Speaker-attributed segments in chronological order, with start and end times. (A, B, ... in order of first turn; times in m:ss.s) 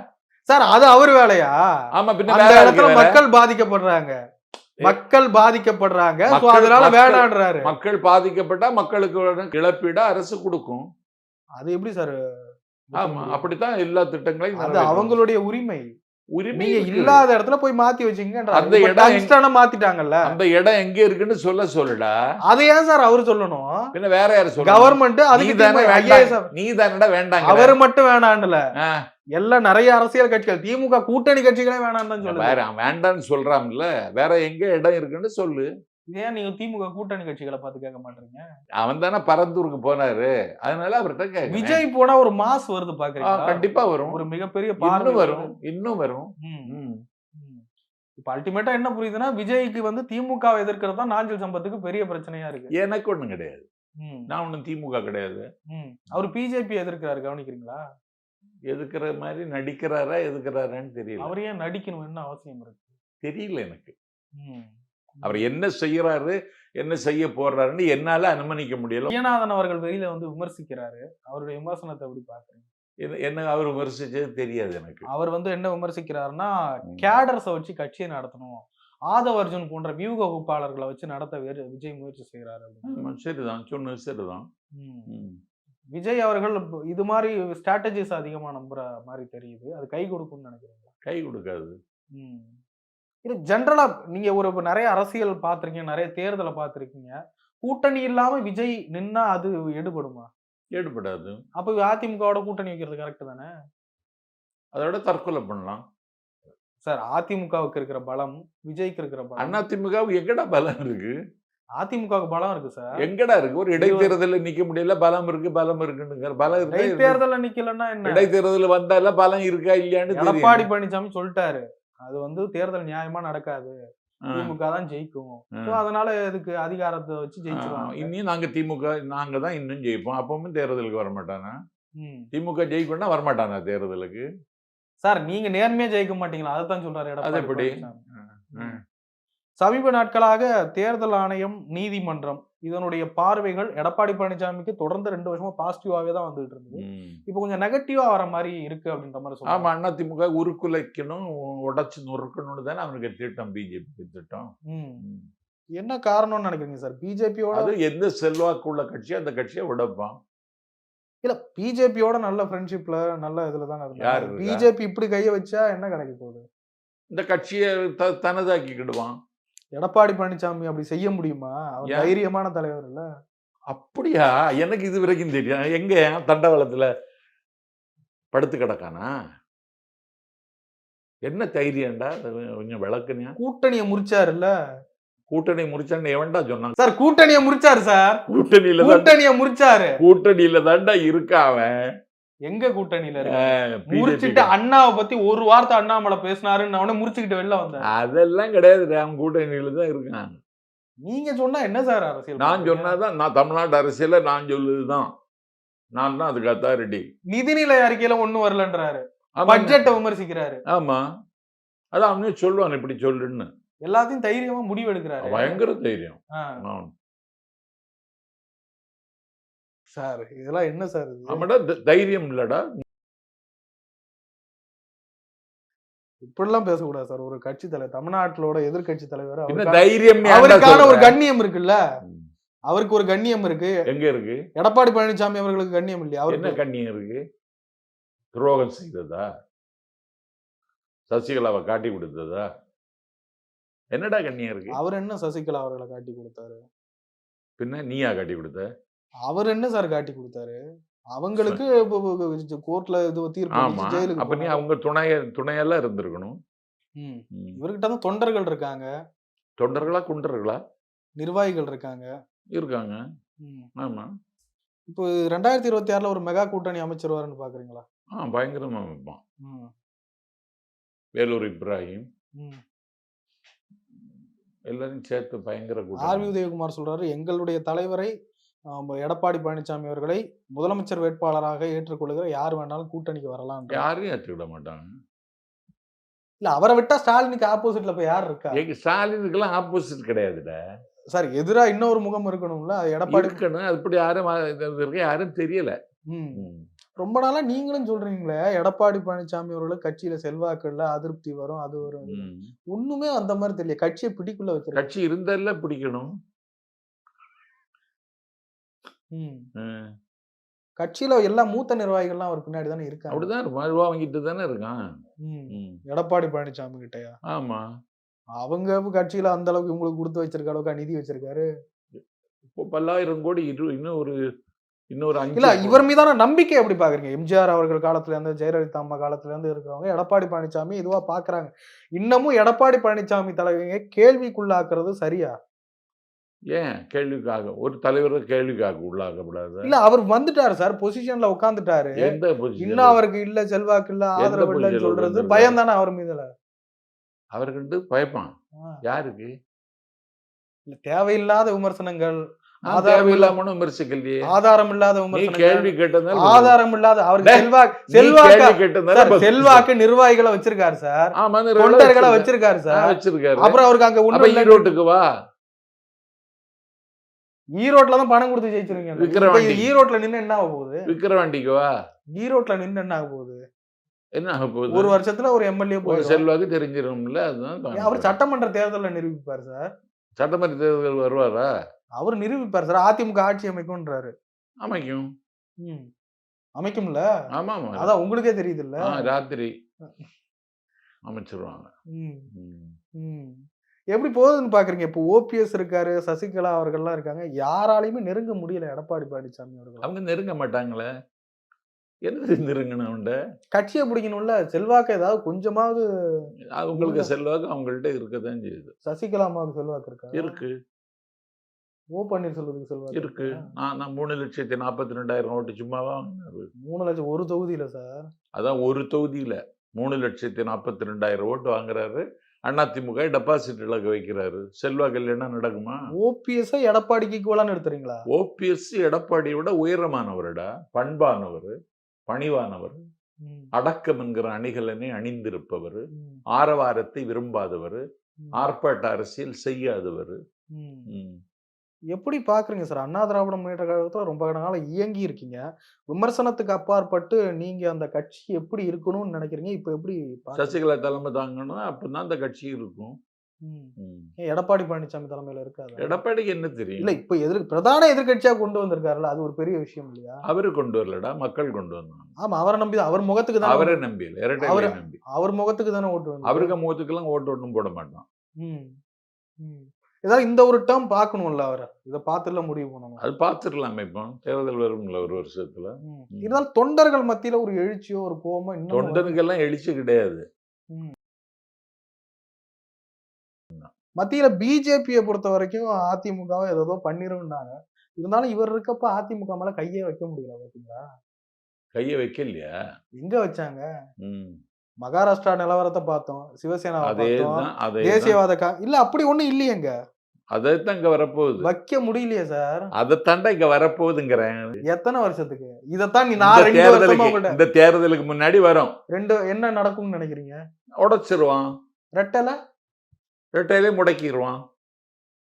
0:00.5-0:01.6 A
0:02.0-0:03.2 B
0:02.3-0:04.1 A
0:04.8-0:07.7 A
0:06.3-0:10.8 B
0:11.6-0:12.2 A
0:12.9-0:13.5 A
0:13.0-0:15.2 B
0:14.6-0:15.9 A
0:16.4-0:17.2 B
0:16.5-0:20.3 A
0:18.5-0:19.3 B
0:20.2-0:22.1 B
0:22.5-0:23.9 A
0:23.9-0:27.8 B
0:24.6-0:26.5 A
0:27.4-0:28.6 A
0:29.4-0:32.6 A
0:32.2-0:35.7 B
0:36.1-0:38.4 A
0:38.8-0:41.8 B
0:41.5-0:45.5 A
0:43.2-0:44.2 B
0:44.8-0:47.0 B
0:46.4-0:46.7 A
0:47.4-0:47.6 A
0:48.2-0:52.7 A
0:52.8-0:53.7 B
0:54.0-0:54.3 A
0:54.3-0:55.4 B
0:55.7-0:57.8 A
0:58.7-1:01.3 B
1:01.2-1:03.0 A
1:03.2-1:04.0 B
1:04.4-1:05.5 A
1:05.2-1:09.1 B
1:09.1-1:12.7 A
1:13.0-1:15.1 B
1:15.1-1:23.0 A
1:22.9-1:24.5 B
1:24.8-1:25.1 A
1:25.1-1:25.4 B
1:26.0-1:30.9 A
1:31.0-1:31.8 B
1:32.2-1:32.6 A
1:33.2-1:40.3 A
1:40.8-1:41.4 B
1:41.6-1:43.5 A
1:44.8-1:45.8 B
1:46.9-1:49.6 A
1:49.4-1:51.1 B
1:51.8-1:53.0 A
1:53.0-1:57.2 B
1:53.8-1:54.2 A
1:56.7-1:58.3 A
1:58.0-2:00.7 B
2:00.1-2:03.8 A
2:04.3-2:08.1 A
2:07.6-2:11.6 B
2:12.0-2:12.3 A
2:12.3-2:14.3 B
2:15.0-2:18.0 A
2:17.2-2:18.8 B
2:18.5-2:18.8 A
2:19.6-2:29.7 A
2:26.8-2:27.2 B
2:29.5-2:34.5 B
2:34.7-2:35.0 A
2:35.8-2:37.7 A
2:37.6-2:40.2 B
2:41.2-2:46.4 A
2:44.0-2:44.7 B
2:47.1-2:49.1 B
2:49.8-2:53.0 A
2:51.9-2:52.2 B
2:53.7-2:56.9 B
2:58.3-2:59.1 B
3:01.2-3:03.3 B
3:03.4-3:04.5 A
3:05.3-3:06.8 B
3:06.8-3:08.2 A
3:08.3-3:09.1 B
3:08.8-3:10.0 A
3:10.0-3:11.7 B
3:12.5-3:17.9 A
3:13.3-3:14.5 B
3:17.9-3:20.4 B
3:21.1-3:23.0 A
3:22.4-3:25.1 B
3:26.0-3:27.0 B
3:27.3-3:30.6 A
3:29.4-3:29.9 B
3:30.7-3:31.0 B
3:31.9-3:33.5 B
3:33.9-3:35.6 A
3:35.2-3:36.9 B
3:40.0-3:41.4 A
3:41.3-3:42.7 B
3:46.2-3:51.8 A
3:49.5-3:51.2 B
3:52.7-3:53.7 A
3:53.9-3:54.4 B
3:54.6-3:56.6 A
3:56.3-3:57.2 B
3:58.3-3:59.3 B
4:01.1-4:02.4 B
4:03.9-4:04.8 B
4:04.7-4:06.6 A
4:07.6-4:08.7 B
4:09.3-4:10.6 A
4:11.2-4:14.6 A
4:11.4-4:11.6 B
4:13.6-4:16.4 B
4:17.0-4:18.9 A
4:19.6-4:20.6 B
4:21.2-4:22.1 A
4:22.6-4:23.0 B
4:23.4-4:23.7 A
4:23.8-4:24.1 B
4:24.9-4:27.8 A
4:28.2-4:29.2 B
4:29.4-4:29.7 A
4:31.2-4:32.1 B
4:34.7-4:36.3 B
4:36.0-4:38.1 A
4:38.7-4:43.9 A
4:43.7-4:44.9 B
4:46.4-4:48.6 A
4:48.5-4:50.6 B
4:51.1-4:53.4 A
4:53.1-4:55.8 B
4:56.1-4:56.4 A
4:56.4-4:56.7 B
4:57.0-5:04.9 A
5:02.0-5:02.5 B
5:04.8-5:06.1 B
5:09.1-5:09.5 A
5:09.6-5:09.9 B
5:10.8-5:13.3 A
5:13.1-5:14.8 B
5:15.2-5:17.2 A
5:15.5-5:15.8 B
5:17.3-5:17.6 B
5:18.4-5:21.5 A
5:22.5-5:24.2 B
5:24.9-5:25.8 B
5:25.3-5:35.3 A
5:36.5-5:39.7 B
5:39.6-5:42.0 A
5:42.0-5:43.0 B
5:42.6-5:46.3 A
5:44.2-5:45.6 B
5:47.4-5:48.3 B
5:48.9-5:49.3 B
5:50.7-5:53.4 A
5:52.7-5:54.3 B
5:54.3-6:04.7 A
5:55.1-5:56.6 B
5:57.2-5:59.7 B
6:01.2-6:03.6 B
6:04.1-6:05.1 B
6:07.6-6:10.9 A
6:09.0-6:09.7 B
6:10.9-6:11.7 B
6:12.2-6:13.4 A
6:14.2-6:14.9 B
6:14.7-6:16.2 A
6:15.9-6:18.2 B
6:17.7-6:19.6 A
6:20.2-6:21.5 B
6:22.0-6:24.1 A
6:24.6-6:25.1 B
6:25.6-6:25.9 A
6:26.6-6:27.0 A
6:27.4-6:27.9 B
6:27.8-6:29.1 A
6:28.8-6:29.5 B
6:31.1-6:31.7 B
6:31.9-6:32.3 A
6:32.3-6:32.8 B
6:33.0-6:39.9 A
6:39.8-6:40.9 B
6:42.1-6:43.2 B
6:43.5-6:47.1 A
6:46.6-6:48.7 B
6:48.9-6:50.4 A
6:50.1-6:50.5 B
6:52.0-6:53.5 A
6:52.9-6:56.5 B
6:56.6-6:57.9 A
6:58.4-7:05.9 B
7:05.9-7:08.0 A
7:08.1-7:11.5 B
7:12.1-7:12.8 B
7:13.2-7:13.5 A
7:13.6-7:17.8 B
7:16.0-7:16.2 A
7:18.2-7:18.5 A
7:18.4-7:20.2 B
7:20.6-7:20.9 A
7:20.9-7:21.2 B
7:21.9-7:25.4 A
7:25.9-7:30.6 A
7:30.4-7:33.0 B
7:33.5-7:36.0 A
7:33.8-7:34.1 B
7:35.8-7:36.9 B
7:36.8-7:40.2 A
7:40.3-7:42.1 B
7:42.2-7:43.8 A
7:43.4-7:45.0 B
7:44.4-7:46.5 A
7:46.3-7:48.0 B
7:48.4-7:48.7 A
7:49.4-7:53.0 A
7:53.0-7:56.4 B
7:55.8-7:59.2 A
7:58.7-8:00.2 B
8:04.0-8:10.8 A
8:11.8-8:12.5 B
8:13.0-8:13.6 A
8:14.0-8:14.4 B
8:14.8-8:19.7 A
8:16.8-8:18.2 B
8:20.3-8:21.5 B
8:21.4-8:22.7 A
8:22.8-8:24.6 B
8:24.7-8:27.4 A
8:26.2-8:28.8 B
8:28.9-8:30.4 A
8:30.8-8:31.5 B
8:32.0-8:32.4 A
8:33.4-8:34.4 B